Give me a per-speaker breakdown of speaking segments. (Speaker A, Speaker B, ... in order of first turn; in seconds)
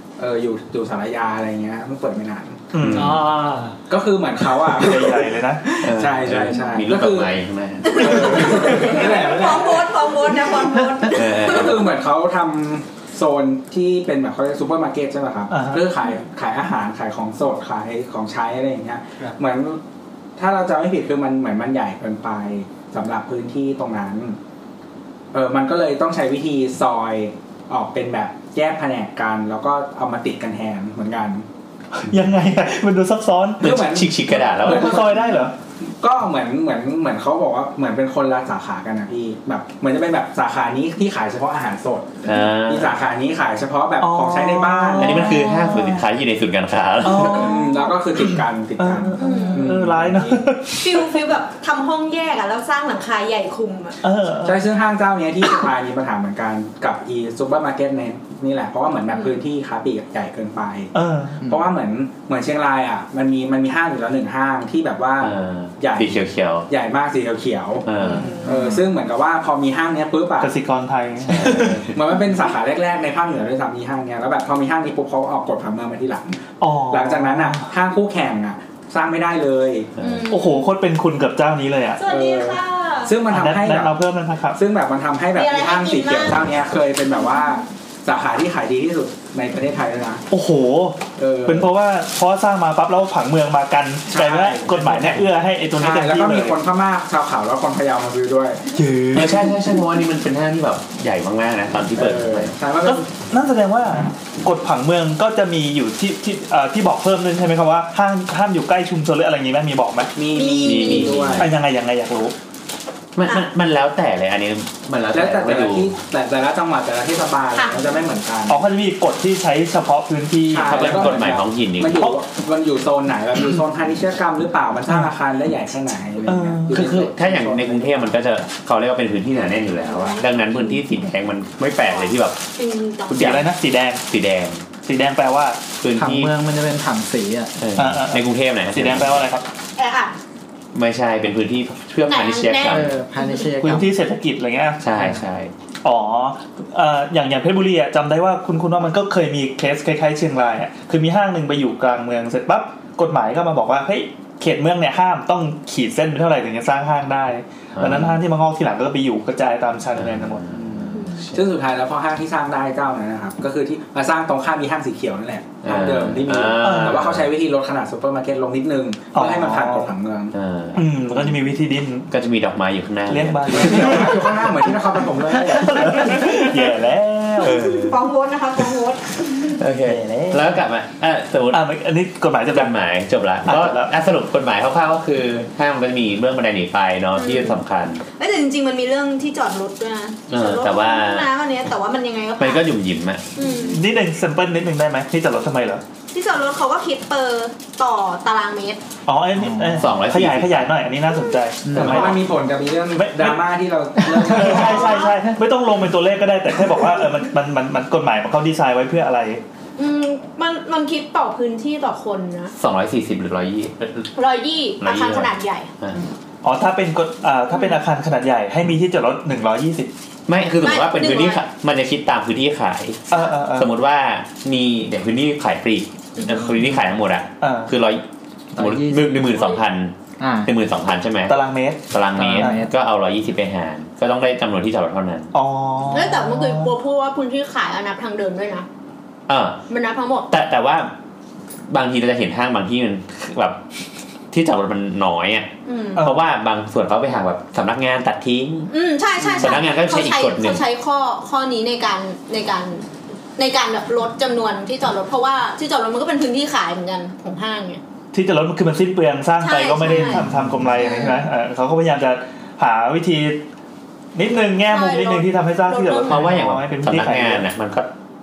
Speaker A: 0.2-2.7, 3.9-7.3, 7.8-9.9, 11.4-19.8, 20.4-24.4, 25.3-31.4, 33.6-35.2, 35.8-45.4, 47.2-50.5, 54.4-60.9, 61.4-70.5, 71.8-79.9, 82.0-84.0, 84.5-90.2, 91.2-91.7, 94.1-95.2, 95.7-98.7, 101.9-103.1, 110.2-111.6, 115.1-118.6, 120.5-128.1, 160.7-170.3, 173.5-176.0, 201.7-205.1
Speaker B: 2.7-3.2, 4.7-5.6, 15.5-15.8, 32.0-33.8, 34.5-35.5, 44.0-46.0, 47.0-47.9, 48.8-51.2, 54.0-54.6, 60.9-61.4, 70.4-71.9, 76.6-77.7, 80.3-82.0, 83.2-84.6, 90.3-96.6, 98.7-99.5, 102.8-110.1, 111.4-112.3, 118.5-121.2, 126.2-126.9, 133.1-134.0, 134.8-135.6, 137.8-139.4, 143.5-144.8, 145.8-160.6, 166.6-167.1, 169.1-169.9, 170.7-172.1, 173.1-174.4, 175.4-177.7, 179.9-180.4, 181.5-182.7, 183.4-183.9, 193.5-195.8, 199.1-202.3, 202.9-203.4, 204.2-209.4, 216.4-219.9, 223.1-223.7, 227.4-227.7, 231.3-232.6, 235.3-236.7, 245.9-246.2, 258.1-263.4, 264.1-267.4
Speaker C: 2.8-3.2, 5.8-8.8, 11.1-11.9, 33.6-35.1, 42.2-43.0, 45.0-47.5, 65.2-66.7, 67.8-68.4, 71.3-71.9, 80.0-80.2, 99.1-102.5, 110.6-111.5, 113.1-116.0, 120.5-122.2, 126.7-132.4, 133.1-133.5, 134.1-134.7, 135.8-136.3, 137.6-139.2, 140.7-143.0, 144.8-145.5, 157.8-158.2, 159.9-161.4, 165.6-167.3, 170.3-170.8, 172.1-174.2, 177.4-178.0, 179.5-181.6, 182.5-188.0, 190.3-191.3, 192.4-193.2, 199.8-200.7, 212.6-214.1, 214.8-216.0, 220.3-235.3, 239.3-239.6, 240.3-240.9, 241.7-243.6, 244.3-248.7, 249.3-250.6, 266.0-267.9
Speaker D: 2.8-3.8, 135.9-137.5, 142.7-143.9, 199.5-199.8, 228.5-229.4, 230.2-230.5, 232.2-232.7
Speaker E: 7.9-11.7, 49.2-49.8, 50.7-54.0, 80.0-80.7, 82.0-83.1, 85.3-86.4, 87.2-87.6, 110.3-111.3, 129.8-130.2, 131.8-133.2, 139.8-140.1, 142.0-143.5, 177.4-179.6, 187.2-187.6, 188.2-192.7, 193.3-193.8, 196.1-198.8, 204.5-205.2, 209.8-212.5, 214.1-215.7, 220.6-221.4, 235.9-238.7, 239.7-240.3, 245.6-246.0, 248.7-252.8, 253.4-257.8, 259.4-261.2, 264.7-266.3